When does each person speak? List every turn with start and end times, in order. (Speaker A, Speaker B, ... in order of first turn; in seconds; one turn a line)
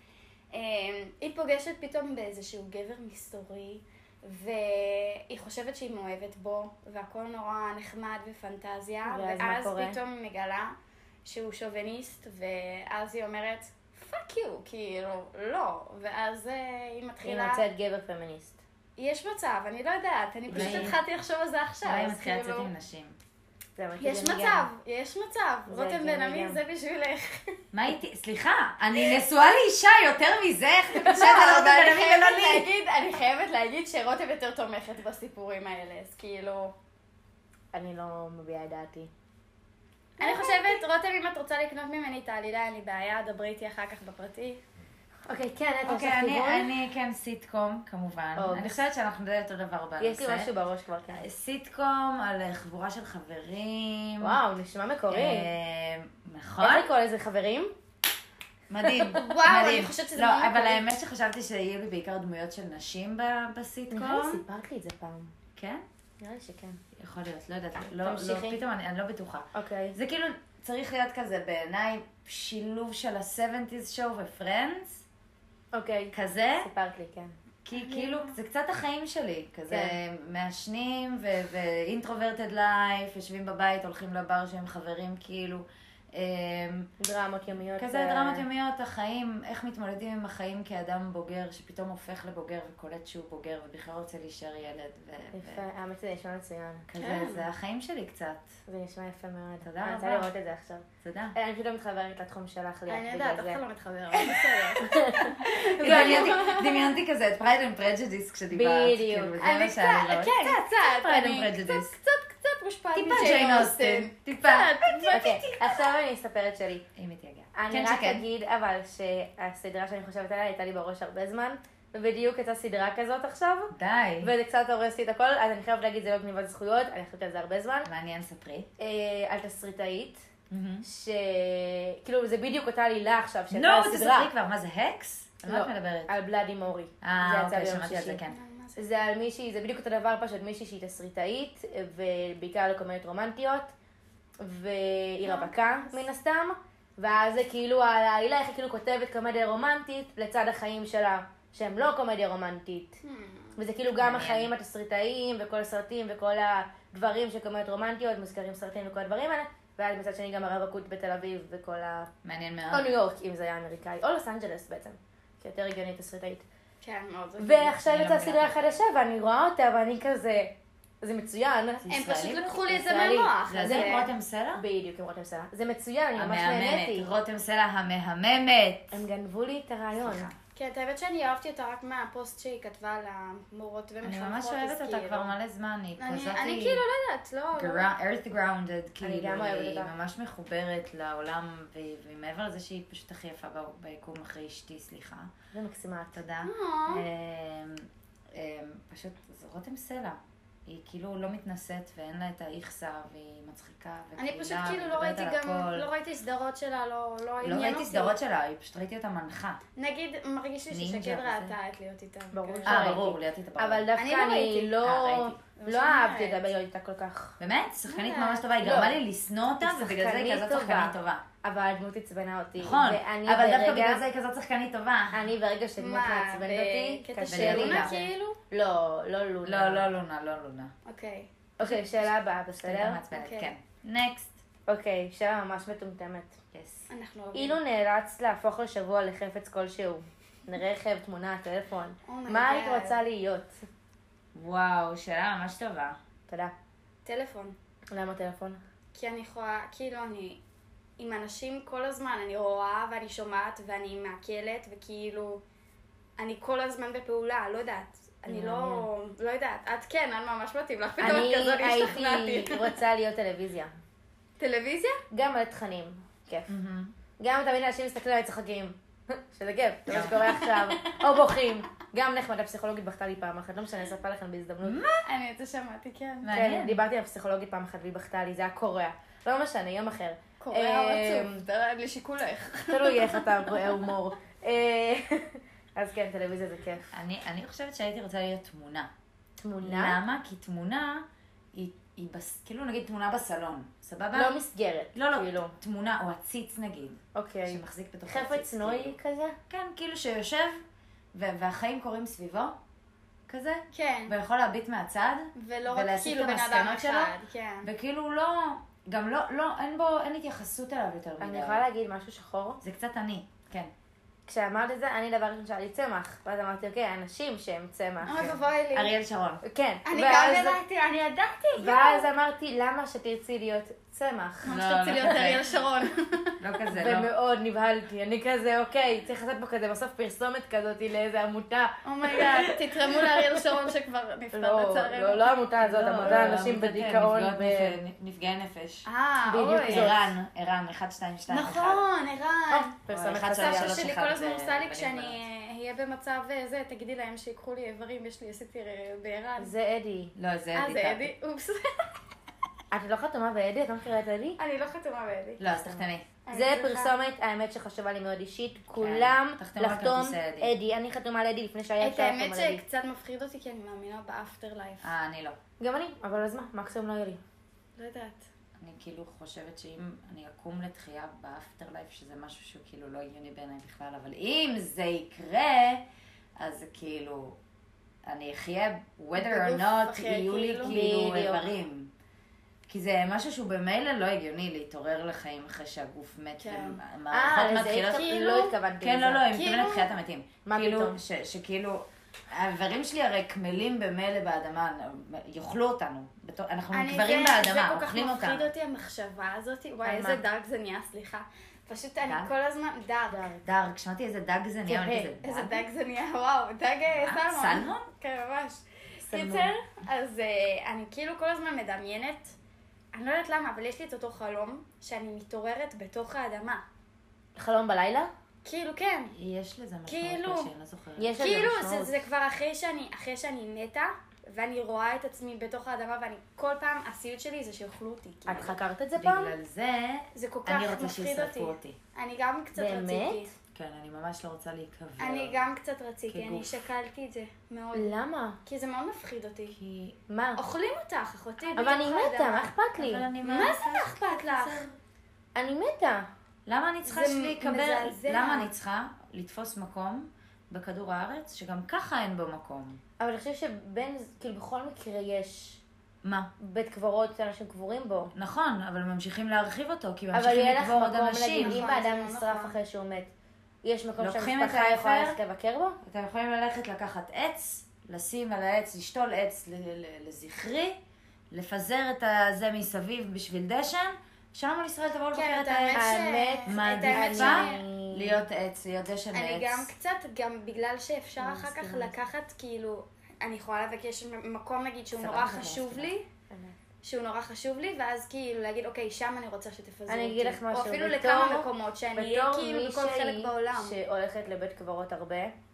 Speaker A: 0.5-17.6
Speaker B: 9.0-10.0
Speaker B: 17.2-18.6
Speaker A: 19.0-22.7
Speaker B: 20.5-20.9
Speaker C: 20.5-21.0
Speaker C: 21.8-23.2
Speaker B: 23.8-24.7
Speaker A: 24.0-27.6
Speaker B: 25.7-26.6
Speaker C: 27.7-32.7
Speaker A: 31.0-36.7
Speaker B: 31.0-31.3
Speaker B: 37.7-39.1
Speaker B: 40.2-40.8
Speaker A: 40.2-44.6
Speaker B: 45.3-46.7
Speaker C: 45.9-50.5
Speaker B: 48.4-48.9
Speaker B: 50.0-51.2
Speaker C: 51.1-54.4
Speaker B: 54.2-55.5
Speaker C: 55.1-56.9
Speaker B: 56.7-57.7
Speaker C: 58.7-64.4
Speaker B: 58.9-59.2
Speaker A: 59.1-60.8
Speaker B: 63.9-65.3
Speaker C: 65.5-65.8
Speaker B: 66.2-66.8
Speaker C: 67.0-75.0
Speaker B: 68.0-68.6
Speaker B: 69.5-70.0
Speaker B: 75.7-77.3
Speaker C: 76.1-76.7
Speaker C: 77.6-86.9
Speaker A: 77.7-78.4
Speaker B: 79.7-80.0
Speaker B: 87.0-88.5
Speaker C: 87.8-95.6
Speaker B: 95.3-96.9
Speaker C: 96.9-98.5
Speaker A: 97.0-97.5
Speaker B: 98.7-103.6
Speaker C: 99.6-100.3
Speaker C: 101.0-101.3
Speaker A: 102.9-107.0
Speaker B: 104.1-106.6
Speaker C: 105.5-112.0
Speaker B: 108.5-109.4
Speaker A: 109.4-115.8
Speaker C: 112.9-115.8
Speaker B: 115.1-116.8
Speaker C: 117.0-118.3
Speaker B: 117.5-127.9
Speaker C: 123.7-124.3
Speaker C: 127.8-128.7
Speaker B: 128.8-130.2
Speaker C: 130.5-130.8
Speaker B: 130.8-134.3
Speaker C: 133.5-136.1
Speaker B: 135.4-138.2
Speaker C: 137.0-138.4
Speaker A: 138.3-138.9
Speaker B: 138.8-143.7
Speaker B: 144.4-153.0
Speaker A: 145.2-146.0
Speaker A: 153.0-153.6
Speaker B: 153.6-162.1
Speaker C: 154.0-154.5
Speaker C: 162.2-162.9
Speaker B: 162.7-166.4
Speaker A: 166.8-167.8
Speaker B: 167.4-171.9
Speaker C: 167.8-168.8
Speaker C: 171.8-172.5
Speaker A: 171.9-174.1
Speaker B: 172.7-177.1
Speaker C: 173.4-174.6
Speaker C: 176.1-179.0
Speaker B: 178.9-180.3
Speaker C: 179.9-180.3
Speaker A: 180.5-185.3
Speaker C: 184.0-186.8
Speaker A: 186.0-187.9
Speaker C: 187.5-195.3
Speaker B: 189.0-189.9
Speaker B: 195.5-196.2
Speaker C: 196.1-205.9
Speaker A: 196.4-197.1
Speaker A: 204.2-208.2
Speaker C: 207.4-209.6
Speaker A: 209.8-212.9
Speaker C: 210.7-211.5
Speaker B: 212.3-217.4
Speaker C: 212.7-213.9
Speaker A: 214.0-214.8
Speaker C: 214.8-215.4
Speaker A: 215.6-216.4
Speaker C: 217.4-221.2
Speaker A: 217.9-218.5
Speaker B: 218.6-219.0
Speaker B: 219.6-224.0
Speaker C: 222.6-225.3
Speaker B: 225.1-229.9
Speaker A: 225.8-228.4
Speaker C: 227.3-228.0
Speaker C: 229.4-230.7
Speaker A: 230.8-231.3
Speaker B: 231.6-233.1
Speaker C: 231.6-231.9
Speaker C: 232.6-234.4
Speaker A: 233.1-233.5
Speaker B: 234.7-236.4
Speaker C: 236.5-236.8
Speaker A: 236.9-237.6
Speaker B: 237.3-243.5
Speaker A: 242.1-243.0
Speaker C: 244.3-246.0
Speaker B: 246.3-246.5
Speaker A: 247.0-247.6
Speaker B: 247.9-248.6
Speaker A: 248.9-250.4
Speaker A: 251.0-255.4
Speaker A: 256.2-262.8
Speaker B: 258.2-258.9
Speaker B: 261.0-263.7
Speaker A: 264.4-265.0
Speaker B: 265.1-266.5
Speaker C: 266.5-266.9
Speaker B: 267.2-274.8
Speaker C: 269.9-270.4
Speaker A: 269.9-271.2
Speaker C: 274.6-275.0
Speaker A: 275.0-276.4
Speaker C: 276.2-276.8
Speaker B: 276.3-281.4
Speaker A: 280.4-283.8
Speaker B: 282.7-286.9
Speaker C: 286.9-288.9
Speaker B: 289.4-290.0
Speaker C: 289.6-294.4
Speaker B: 294.1-295.6
Speaker C: 294.9-298.9
Speaker B: 297.1-299.4
Speaker C: 299.5-302.5
Speaker C: 303.3-311.6
Speaker A: 303.7-304.1
Speaker A: 305.4-307.7
Speaker B: 311.2-312.6
Speaker C: 312.6-313.7
Speaker B: 314.3-318.2
Speaker A: 318.0-318.9
Speaker C: 318.0-319.4
Speaker B: 319.4-320.6
Speaker A: 319.8-322.1
Speaker B: 321.6-324.6
Speaker A: 324.4-326.3
Speaker C: 324.4-325.6
Speaker C: 326.4-327.1
Speaker B: 326.7-333.7
Speaker A: 331.8-335.6
Speaker B: 334.3-337.8
Speaker C: 335.6-338.9
Speaker A: 338.8-339.9
Speaker B: 339.2-340.1
Speaker C: 339.6-341.9
Speaker A: 341.3-342.8
Speaker B: 342.5-343.9
Speaker C: 342.9-345.2
Speaker A: 343.3-349.5
Speaker B: 349.4-350.1
Speaker C: 350.1-351.1
Speaker A: 350.5-351.9
Speaker B: 352.7-354.4
Speaker A: 354.4-355.4
Speaker C: 355.4-356.1
Speaker B: 355.6-362.6
Speaker A: 356.2-356.9
Speaker C: 358.8-360.5
Speaker A: 361.8-364.9
Speaker C: 364.8-365.4
Speaker B: 365.6-367.2
Speaker A: 367.8-368.3
Speaker C: 368.6-375.8
Speaker C: 376.4-377.4
Speaker C: 378.1-381.9
Speaker A: 379.1-380.8
Speaker B: 380.6-381.5
Speaker C: 382.7-388.2
Speaker A: 386.4-386.8
Speaker B: 387.1-389.3
Speaker A: 388.0-388.5
Speaker C: 388.8-398.5
Speaker A: 389.3-389.9
Speaker B: 390.4-391.0
Speaker A: 396.7-403.3
Speaker B: 399.8-400.2
Speaker C: 402.0-402.3
Speaker B: 403.1-403.5
Speaker C: 403.4-405.6
Speaker B: 404.6-405.2
Speaker A: 405.2-412.4
Speaker C: 406.9-407.9
Speaker B: 409.0-409.5
Speaker A: 412.9-416.6
Speaker B: 417.4-418.1
Speaker A: 418.4-419.1
Speaker C: 419.1-421.2
Speaker A: 419.9-420.5
Speaker B: 421.0-422.1
Speaker A: 421.2-428.6
Speaker B: 428.2-429.4
Speaker C: 428.9-431.8
Speaker A: 430.1-433.3
Speaker B: 432.5-433.3
Speaker C: 433.5-435.4
Speaker A: 435.0-439.6
Speaker C: 436.1-436.5
Speaker B: 437.7-438.4
Speaker C: 439.6-439.9
Speaker B: 440.1-440.4
Speaker A: 440.4-442.5
Speaker B: 441.5-443.2
Speaker C: 442.8-444.6
Speaker A: 443.2-444.6
Speaker B: 445.4-446.0
Speaker C: 446.4-452.8
Speaker A: 446.9-448.5
Speaker B: 453.0-455.6
Speaker C: 456.0-456.3
Speaker B: 456.4-458.1
Speaker C: 458.1-461.6
Speaker B: 460.1-463.1
Speaker A: 461.4-462.5
Speaker B: 463.6-465.8
Speaker C: 464.0-465.2
Speaker C: 465.8-470.8
Speaker C: 471.3-475.9
Speaker A: 475.1-477.6
Speaker B: 475.7-478.2
Speaker C: 476.4-479.7
Speaker A: 479.1-486.0
Speaker B: 481.2-482.0
Speaker C: 485.0-485.9
Speaker B: 486.3-486.6
Speaker A: 486.8-493.8
Speaker B: 489.9-495.3